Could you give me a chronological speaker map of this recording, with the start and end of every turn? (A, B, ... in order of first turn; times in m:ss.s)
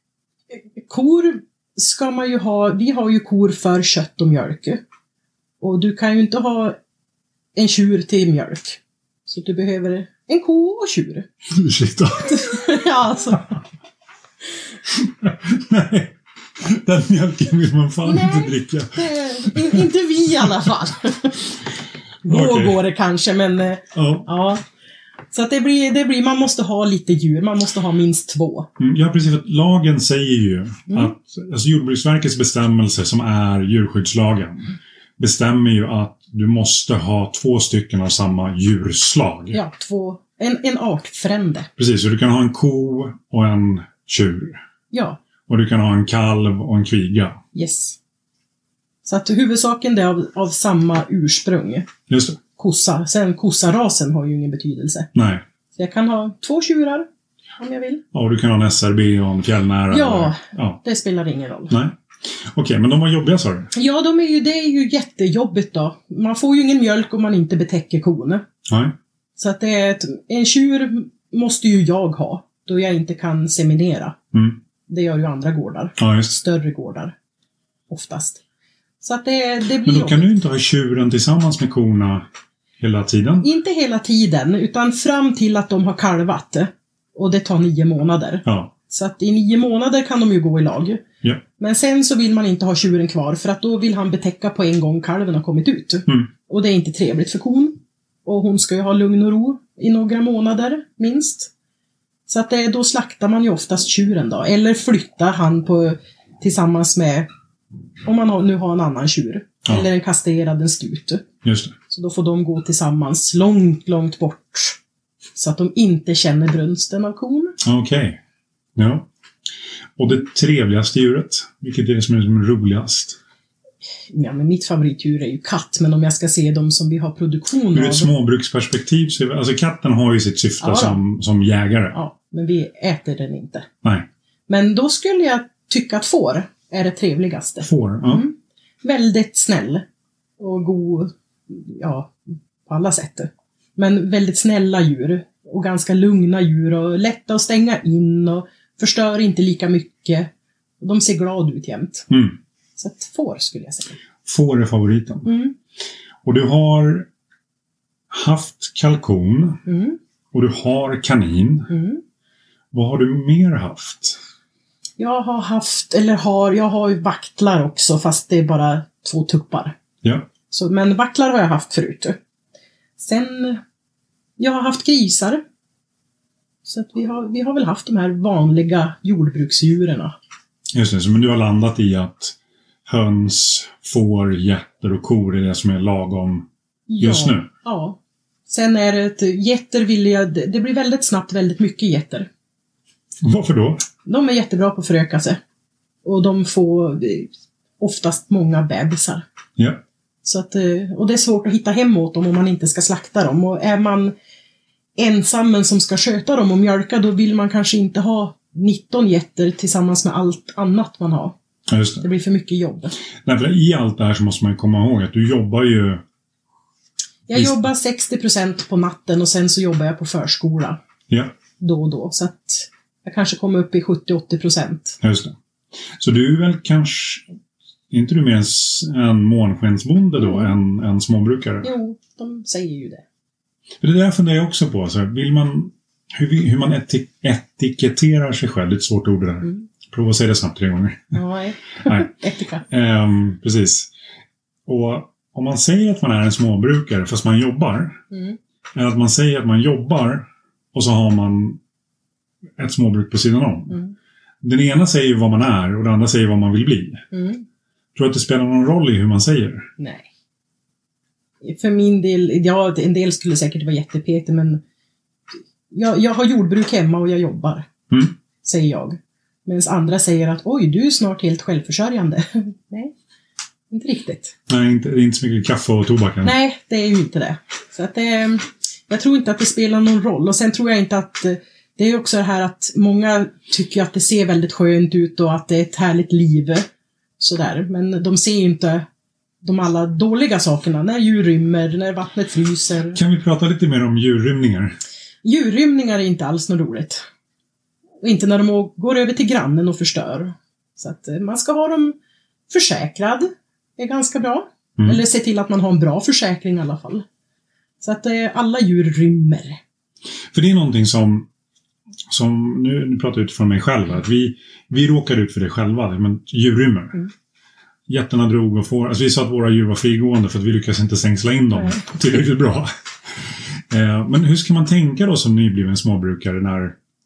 0:00.5-0:04.8 A
0:05.6-0:06.8 A
0:07.5-0:11.3 A
0:11.5-0:12.8 B
0:12.3-0:13.6 A
0:14.9-0:19.8 B
0:18.0-0:21.5 A
0:22.2-0:24.6 A
0:22.3-0:22.8 B
0:23.9-0:24.3 B
0:25.3-0:28.7 A
0:28.8-0:39.6 B
0:39.5-0:41.7 A
0:41.8-0:44.6 B
0:44.9-0:45.2 A
0:45.5-0:47.4 B
0:47.5-0:48.0 A
0:49.0-0:51.9 A
0:52.1-0:52.4 B
0:52.6-0:55.1 A
0:55.1-0:55.4 B
0:55.7-0:57.1 A
0:57.6-0:58.0 A
0:58.1-1:00.8 B
0:59.9-1:01.7 A
1:01.7-1:03.7 B
1:03.7-1:08.4 A
1:08.6-1:08.9 B
1:09.4-1:14.2 A
1:14.3-1:14.6 B
1:14.9-1:17.1 A
1:16.0-1:16.4 B
1:17.9-1:18.4 A
1:19.0-1:20.4 A
1:19.8-1:22.2 B
1:22.8-1:23.5 B
1:23.4-1:31.0 A
1:28.4-1:28.7 B
1:31.6-1:41.5 A
1:42.3-1:47.3 A
1:48.0-1:51.2 A
1:51.4-1:51.7 B
1:51.9-1:54.8 A
1:55.4-1:57.6 A
1:57.6-1:58.2 B
1:58.8-1:59.1 B
2:00.0-2:03.2 B
2:04.1-2:08.1 A
2:07.7-2:12.0 B
2:10.6-2:11.0 A
2:11.9-2:13.7 A
2:14.5-2:19.8 A
2:17.6-2:18.2 B
2:20.4-2:32.1 A
2:32.1-2:32.4 B
2:32.8-2:34.0 A
2:34.2-2:35.3 B
2:35.2-2:35.5 A
2:36.2-2:37.1 B
2:38.1-2:39.6 B
2:39.6-2:40.0 A
2:40.3-2:41.7 B
2:41.7-2:42.0 A
2:42.7-2:44.2 B
2:45.0-2:49.8 A
2:50.0-2:50.3 B
2:50.5-2:52.2 A
2:53.0-2:53.6 A
2:54.4-2:55.4 A
2:56.6-3:00.1 A
3:00.7-3:06.4 B
3:06.9-3:12.3 A
3:07.0-3:07.5 B
3:13.2-3:13.8 B
3:14.0-3:15.4 A
3:16.0-3:19.2 A
3:19.6-3:19.8 B
3:20.2-3:24.1 A
3:25.0-3:31.4 A
3:31.7-3:32.0 B
3:32.0-3:32.9 A
3:33.2-3:36.0 B
3:37.3-3:40.8 A
3:37.3-3:37.6 B
3:41.1-3:41.3 B
3:41.6-3:45.0 A
3:45.0-3:45.3 B
3:46.0-3:47.3 B
3:47.9-3:51.7 B
3:50.2-3:50.5 A
3:51.6-3:53.0 A
3:53.8-4:01.2 B
4:01.1-4:02.6 A
4:02.7-4:03.9 B
4:04.6-4:08.0 B
4:08.1-4:08.4 A
4:08.7-4:11.6 B
4:12.6-4:13.8 B
4:14.4-4:17.0 B
4:17.1-4:17.4 A
4:17.9-4:19.7 B
4:19.8-4:20.1 A
4:21.4-4:24.6 A
4:25.7-4:27.7 A
4:28.4-4:32.9 A
4:33.7-4:34.3 A
4:34.5-4:36.3 B
4:36.2-4:46.7 A
4:47.2-4:48.8 A
4:49.4-4:53.0 A
4:52.9-4:54.8 B
4:55.2-4:57.0 A
4:58.0-5:02.0 A
5:02.5-5:07.0 A
5:04.8-5:05.0 B
5:07.8-5:09.6 A
5:10.3-5:11.3 B
5:12.1-5:17.0 B
5:17.9-5:22.7 B
5:23.2-5:26.8 B